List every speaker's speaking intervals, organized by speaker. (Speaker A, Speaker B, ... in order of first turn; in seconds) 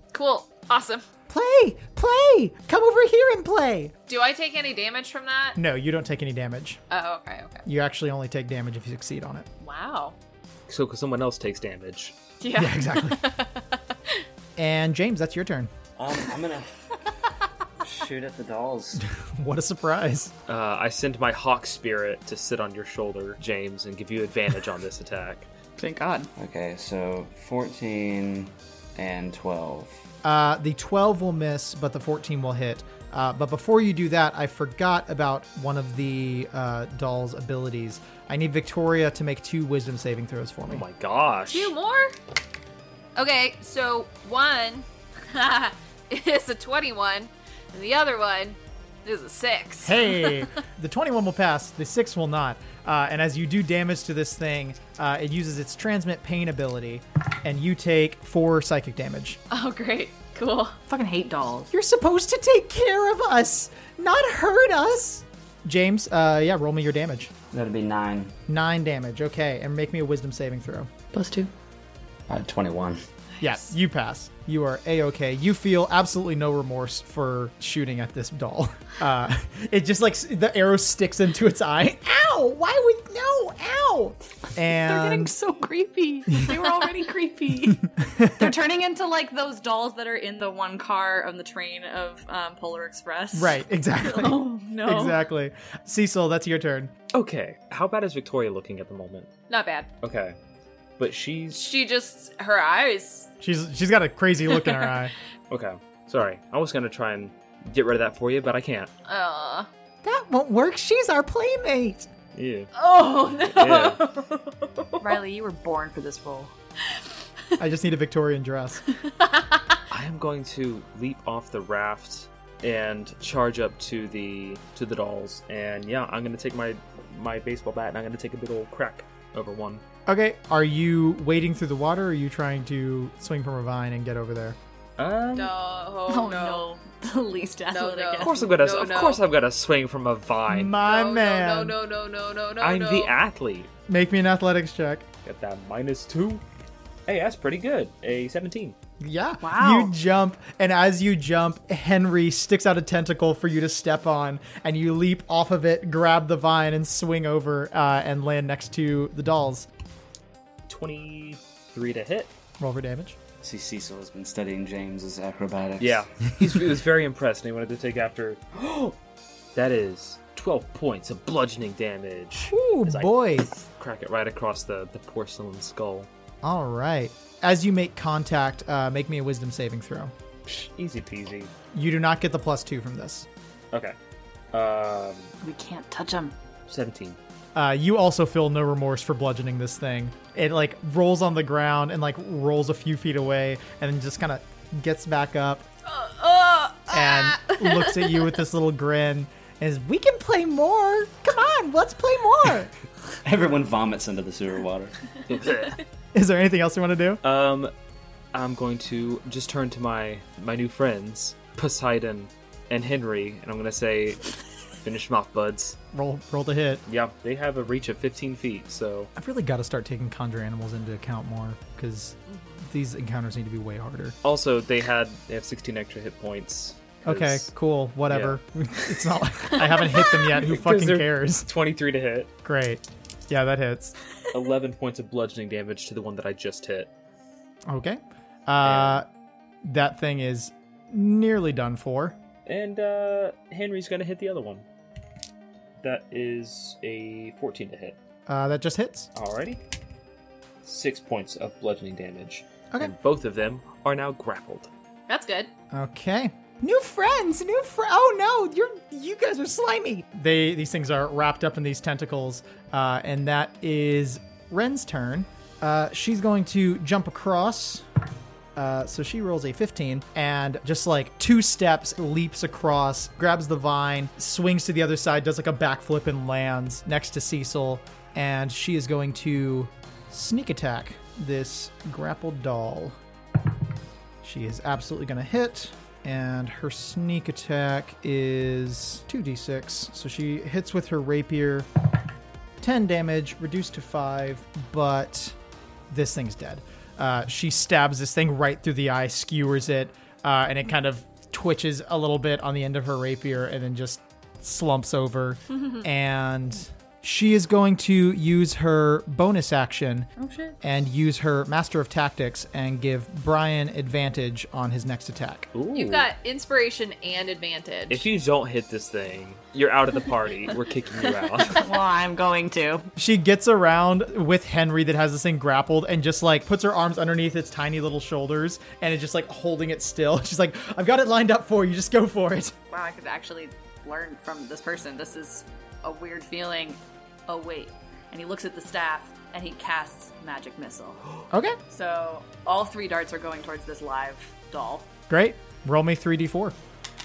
Speaker A: 0.1-1.1, 4.1-5.6, 6.9-7.6, 9.6-10.2, 12.4-14.2, 41.5-42.2, 43.2-50.4, 59.5-60.8, 73.3-73.7, 94.2-95.1, 99.5-99.9, 101.5-103.3, 104.5-105.0, 109.1-109.7, 112.8-115.0, 119.1-119.8, 135.3-136.6, 137.7-139.2, 140.8-143.1, 195.9-198.3, 222.3-222.6, 255.1-255.5, 315.7-318.1
Speaker B: 1.3-3.9, 5.6-6.8, 7.7-9.5, 12.5-13.2, 14.6-15.7, 19.2-20.3, 30.2-40.9, 49.8-59.4, 61.7-67.3, 68.5-70.9, 73.4-85.3, 87.7-88.5, 93.3-96.9, 103.4-105.1, 110.0-112.1, 117.6-118.8, 130.1-134.6, 140.5-141.8, 143.9-145.1, 149.0-159.7, 162.6-163.2, 172.5-173.5, 176.4-180.1, 181.7-183.3, 187.6-195.7, 196.9-202.7, 206.1-207.2, 215.9-216.8, 219.2-224.2, 227.1-231.5, 232.4-234.0, 237.7-239.1, 239.7-242.2, 248.3-249.1, 255.7-267.9, 268.6-283.0, 284.2-291.7, 292.6-295.4, 295.9-310.1, 310.6-315.5, 323.0-332.6, 341.3-341.6, 345.1-346.6
Speaker C: 10.7-12.2, 20.5-25.5, 40.7-41.7, 97.1-99.3, 100.0-100.4, 101.0-101.7, 105.5-108.9, 112.3-112.7, 113.5-114.0, 119.9-129.8, 135.0-135.5, 138.2-140.8, 142.6-143.7, 145.2-146.4, 147.1-148.8, 160.7-162.3, 165.8-168.9, 169.6-176.1, 180.5-181.5, 184.5-185.3, 186.7-187.2, 205.3-205.8, 207.2-207.7, 208.3-214.2, 214.8-215.8, 216.9-219.1, 224.2-227.5, 228.1-228.9, 230.3-232.3, 234.3-236.9, 238.6-239.0, 242.5-244.7, 245.8-248.0, 249.1-249.6, 250.6-254.7, 315.5-316.1, 317.9-321.6
Speaker D: 16.0-17.1, 17.8-19.0, 26.4-30.0, 67.5-68.3, 72.3-73.0, 163.4-166.1, 203.2-205.0
Speaker E: 25.8-26.3, 60.9-61.7, 71.1-71.5, 84.7-93.6, 94.2-95.1, 115.0-116.5, 136.1-138.4, 149.4-149.9, 185.4-186.3, 310.2-310.6, 321.6-322.9, 332.7-341.0, 341.7-344.9